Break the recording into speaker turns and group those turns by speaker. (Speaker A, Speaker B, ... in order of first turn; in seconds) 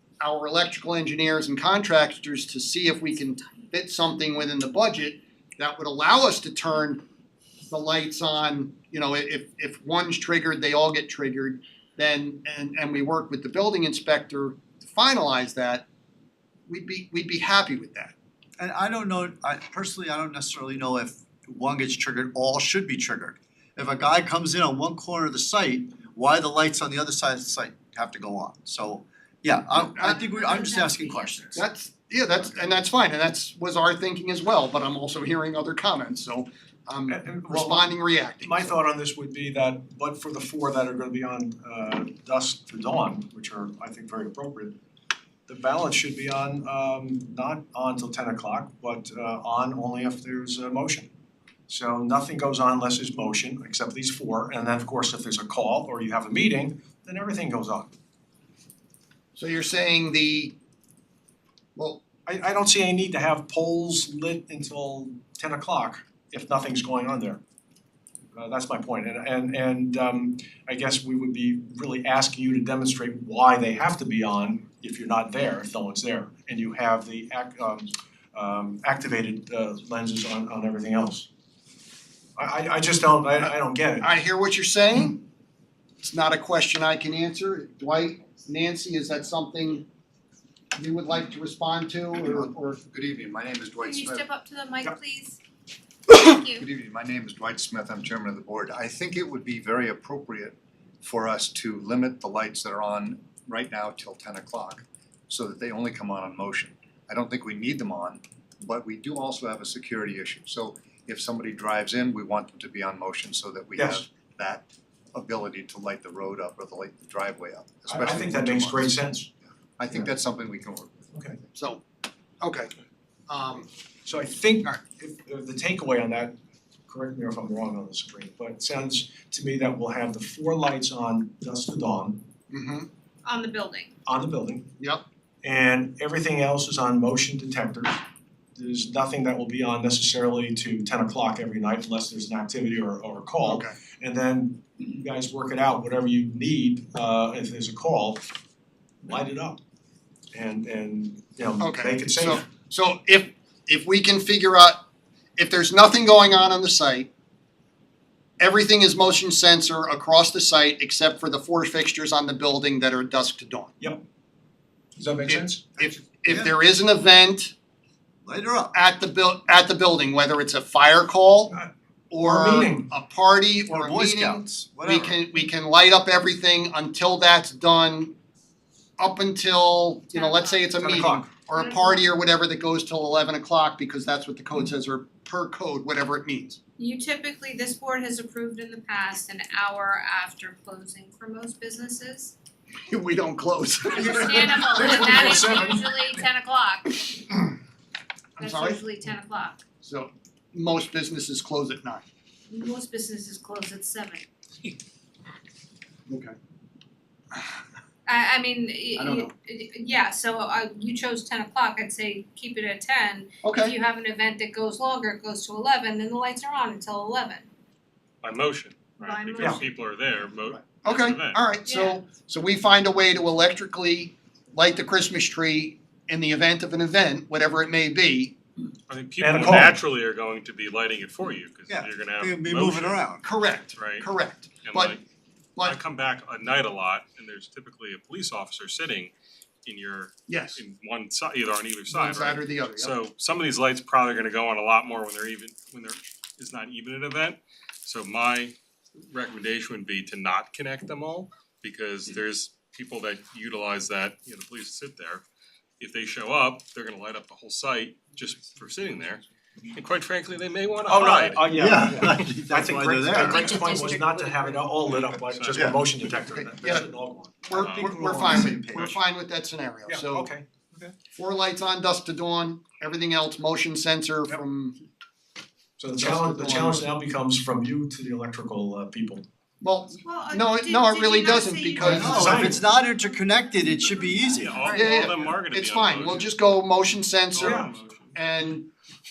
Speaker A: 0.2-7.0, 7.7-15.9, 16.7-18.1, 29.9-30.2, 31.6-38.7, 59.4-60.5, 61.8-62.0, 84.0-85.2, 86.0-89.9, 90.8-92.8, 121.5-121.8, 122.4-122.7, 123.3-123.7, 132.5-132.9, 143.4-143.8, 151.6-154.8, 155.4-157.1, 158.4-163.7, 165.3-167.5, 168.7-171.6, 172.1-178.1, 179.0-186.6, 192.9-195.1, 198.4-198.8, 199.8-202.1, 206.1-206.4, 209.0-209.3, 213.4-213.8, 220.7-228.4, 233.2-235.0, 240.3-240.6, 241.9-242.9, 266.3-266.9, 267.4-270.3, 271.1-274.8, 275.9-276.9, 279.6-282.6, 284.7-288.7
Speaker B: 18.6-31.6, 166.3-166.5, 168.2-168.7, 173.7-175.3, 231.7-233.2, 261.5-263.4, 265.5-265.8, 267.5-269.0, 281.8-284.7
Speaker C: 30.1-31.5, 93.8-95.4, 96.1-96.7, 133.2-133.9, 180.1-180.8, 181.5-182.1, 186.8-192.3, 193.9-197.3, 198.4-199.6, 202.5-204.3, 208.1-217.5, 219.0-219.7, 221.7-222.0, 263.2-264.5, 280.0-282.7, 283.9-285.1
Speaker D: 37.1-44.8, 45.5-51.1, 51.7-57.9, 62.3-67.4, 68.3-81.3, 82.4-84.1, 113.8-114.0, 117.9-119.3, 121.1-121.4, 124.0-126.4, 126.9-132.3, 134.1-134.7, 135.4-138.0, 138.6-148.3, 149.0-149.6, 150.3-152.5, 165.0-165.7, 171.5-172.9, 180.8-181.4, 194.7-195.9, 229.2-229.8, 260.9-267.5, 269.9-270.9, 275.8-279.3, 281.8-282.6, 287.4-287.7
Speaker E: 92.8-94.3, 96.6-119.0, 119.8-121.0
Speaker F: 218.2-221.4, 228.9-233.0, 233.8-234.1, 234.6-235.0, 235.6-239.1, 239.7-248.5, 249.1-255.2, 255.8-262.3, 265.0-265.7, 267.6-267.9, 284.3-286.3, 287.3-288.2